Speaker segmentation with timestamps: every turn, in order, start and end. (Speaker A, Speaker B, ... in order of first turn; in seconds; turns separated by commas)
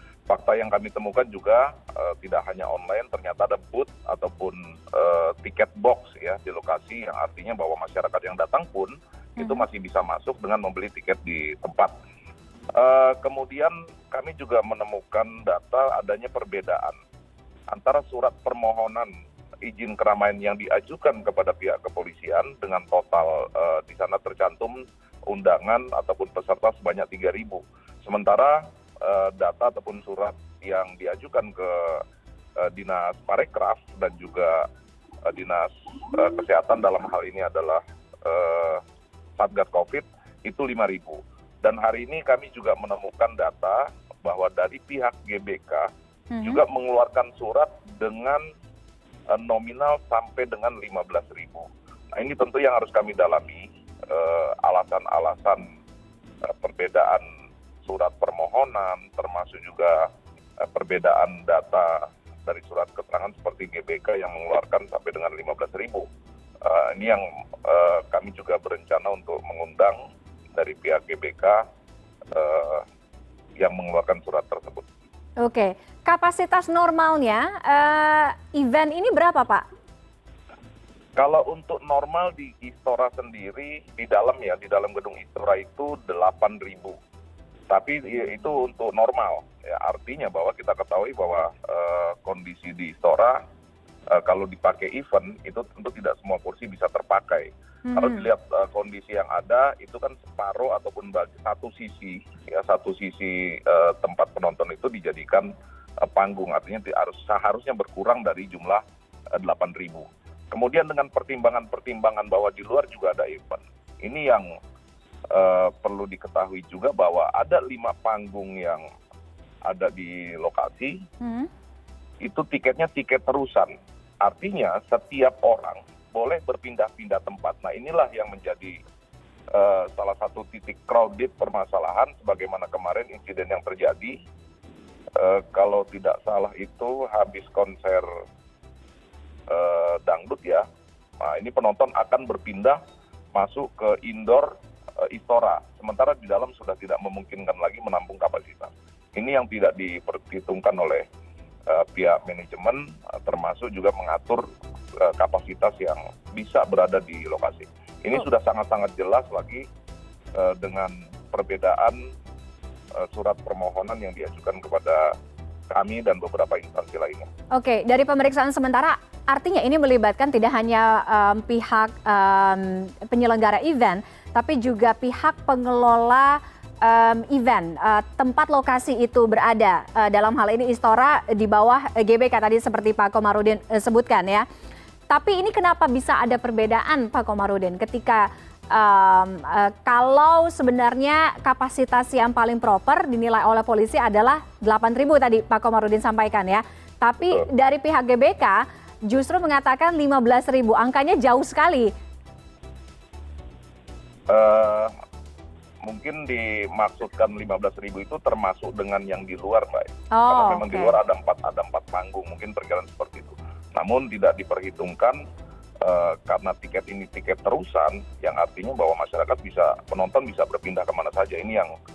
Speaker A: 0.3-11.9, Speaker B: 9.4-9.7, Speaker A: 12.8-17.0, Speaker A: 17.7-19.1, Speaker A: 19.6-32.0, Speaker A: 32.6-34.7, Speaker A: 35.3-38.8, Speaker A: 39.4-45.9, Speaker B: 46.3-46.6, Speaker A: 46.4-48.4, Speaker A: 49.3-55.6, Speaker A: 56.5-57.2, Speaker A: 57.9-66.1, Speaker A: 66.6-70.0, Speaker A: 70.5-71.6, Speaker A: 72.3-72.8, Speaker A: 73.6-74.8, Speaker B: 75.4-79.6, Speaker A: 81.2-87.0, Speaker A: 87.7-93.4, Speaker A: 94.1-105.5, Speaker B: 97.9-98.2, Speaker A: 106.0-108.8, Speaker A: 109.3-114.5, Speaker A: 115.3-118.8, Speaker A: 119.7-121.0, Speaker B: 121.2-121.5, Speaker A: 122.2-128.8, Speaker A: 129.5-134.2, Speaker A: 135.2-138.1, Speaker A: 139.5-140.6, Speaker A: 141.2-142.8, Speaker A: 143.3-151.1, Speaker A: 151.7-154.4, Speaker A: 155.0-159.7, Speaker A: 160.4-162.0, Speaker A: 163.0-165.1, Speaker A: 165.7-167.3, Speaker B: 167.5-184.4, Speaker B: 185.1-201.9, Speaker A: 204.3-204.9, Speaker A: 205.8-215.2, Speaker B: 210.1-211.0, Speaker A: 215.8-221.7